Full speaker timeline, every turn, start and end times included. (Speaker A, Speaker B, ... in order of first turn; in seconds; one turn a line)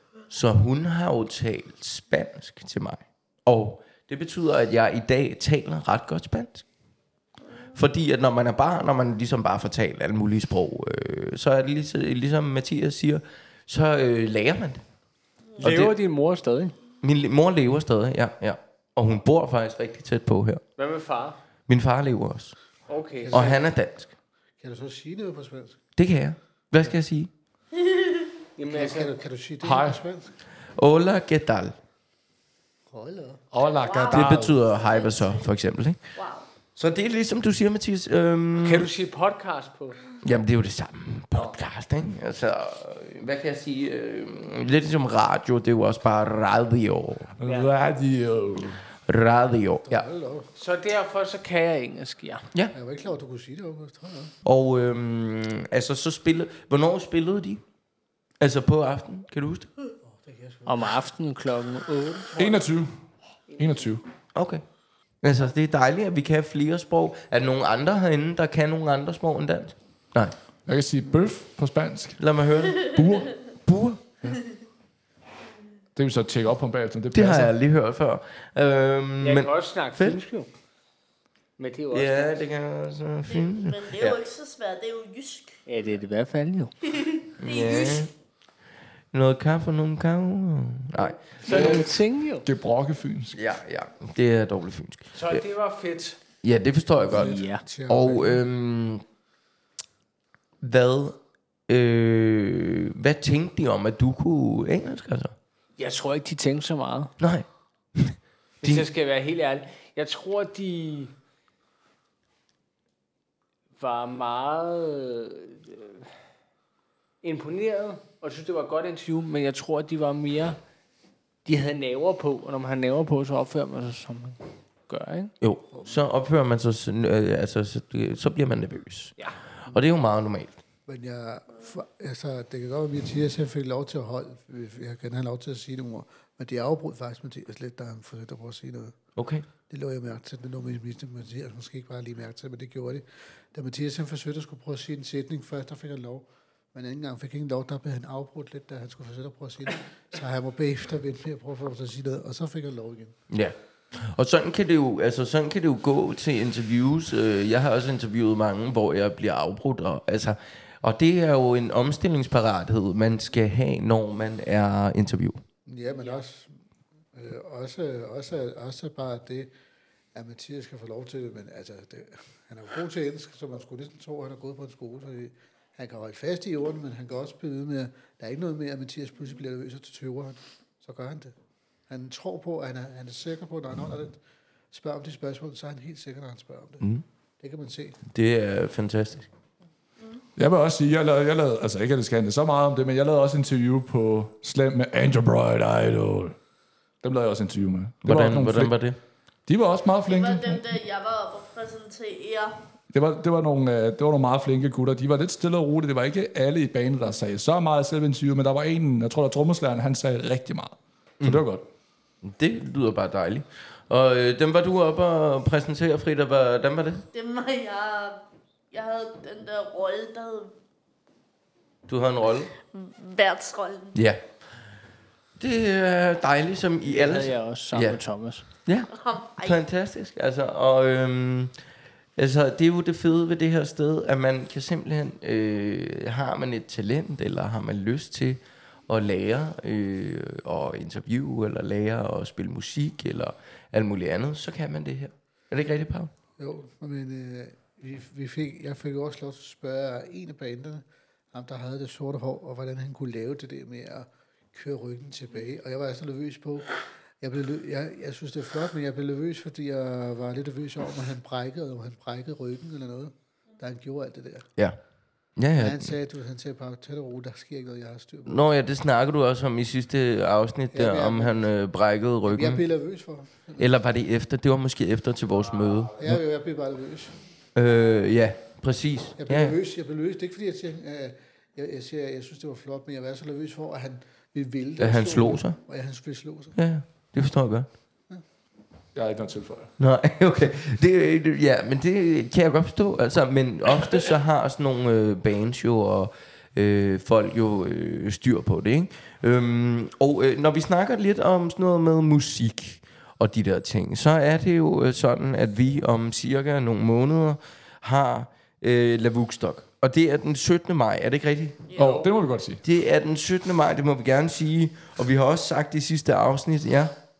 Speaker A: 0.3-6.7
Speaker A: 7.8-14.8
Speaker A: 15.6-15.9
Speaker B: 15.6-16.8
Speaker A: 17.0-20.6
Speaker B: 20.8-21.4
Speaker A: 21.7-22.6
Speaker B: 22.9-23.6
Speaker C: 23.2-23.7
Speaker A: 23.3-24.1
Speaker C: 24.6-25.8
Speaker A: 26.0-27.3
Speaker D: 27.8-28.2
Speaker B: 28.6-29.1
Speaker C: 28.7-30.4
Speaker E: 29.6-30.0
Speaker A: 30.8-31.8
Speaker C: 32.9-33.5
Speaker E: 33.5-34.6
Speaker D: 33.7-35.5
Speaker A: 34.1-36.0
Speaker D: 36.1-36.5
Speaker A: 36.8-38.9
Speaker B: 38.6-40.0
Speaker A: 40.2-47.3
Speaker E: 47.4-48.8
Speaker B: 47.4-47.7
Speaker A: 49.1-50.0
Speaker C: 49.9-50.5
Speaker B: 50.5-52.5
Speaker C: 52.7-54.4
Speaker A: 54.5-57.6
Speaker A: 58.4-59.7
Speaker C: 60.0-61.0
Speaker B: 60.7-62.4
Speaker E: 62.4-62.9
Speaker B: 63.5-63.9
Speaker E: 63.6-64.0
Speaker A: 64.3-64.6
Speaker A: 65.2-70.4
Speaker E: 70.7-72.2
Speaker A: 72.2-74.1
Speaker E: 72.8-73.4
Speaker E: 76.0-77.5
Speaker A: 77.1-80.2
Speaker B: 79.2-80.5
Speaker B: 81.6-82.4
Speaker A: 81.9-84.2
Speaker D: 83.3-85.6
Speaker B: 85.7-86.7
Speaker D: 87.0-88.1
Speaker A: 87.4-88.1
Speaker A: 89.1-91.9
Speaker B: 91.4-92.5
Speaker E: 92.4-93.4
Speaker A: 93.3-95.4
Speaker B: 95.1-96.2
Speaker A: 96.4-99.0
Speaker C: 97.0-98.4
Speaker B: 97.2-97.6
Speaker A: 100.6-105.3
Speaker B: 105.8-107.2
Speaker A: 107.2-108.9
Speaker B: 108.6-111.2
Speaker B: 113.8-116.1
Speaker B: 117.2-120.6
Speaker B: 121.5-125.3
Speaker A: 125.4-129.2
Speaker A: 129.7-130.6
Speaker C: 130.9-139.0
Speaker A: 139.2-139.5
Speaker C: 139.7-153.2
Speaker A: 153.3-165.4
Speaker C: 165.7-166.6
Speaker C: 167.1-169.5
Speaker C: 170.2-181.3
Speaker C: 181.9-184.2
Speaker C: 184.7-188.0
Speaker A: 188.1-189.3
Speaker E: 190.4-196.4
Speaker E: 197.0-198.8
Speaker A: 198.0-199.0
Speaker E: 199.5-200.7
Speaker D: 200.1-202.6
Speaker E: 202.9-211.7
Speaker A: 212.2-217.1
Speaker D: 217.1-220.5
Speaker A: 221.9-222.5
Speaker D: 222.7-224.0
Speaker A: 223.9-224.2
Speaker A: 225.4-228.0
Speaker B: 226.9-228.5
Speaker A: 228.6-228.9
Speaker D: 228.9-229.6
Speaker A: 229.4-231.5
Speaker A: 232.2-246.1
Speaker C: 246.4-264.5
Speaker A: 265.4-265.9
Speaker C: 265.6-268.5
Speaker A: 268.3-272.6
Speaker C: 270.7-271.5
Speaker C: 272.2-273.7
Speaker A: 273.6-276.2
Speaker C: 276.0-277.2
Speaker A: 277.6-279.6
Speaker C: 279.2-286.6
Speaker A: 284.8-285.6
Speaker A: 286.6-287.7
Speaker E: 288.9-289.7
Speaker A: 289.8-311.6
Speaker D: 311.7-312.1
Speaker E: 311.8-312.6
Speaker A: 312.6-317.0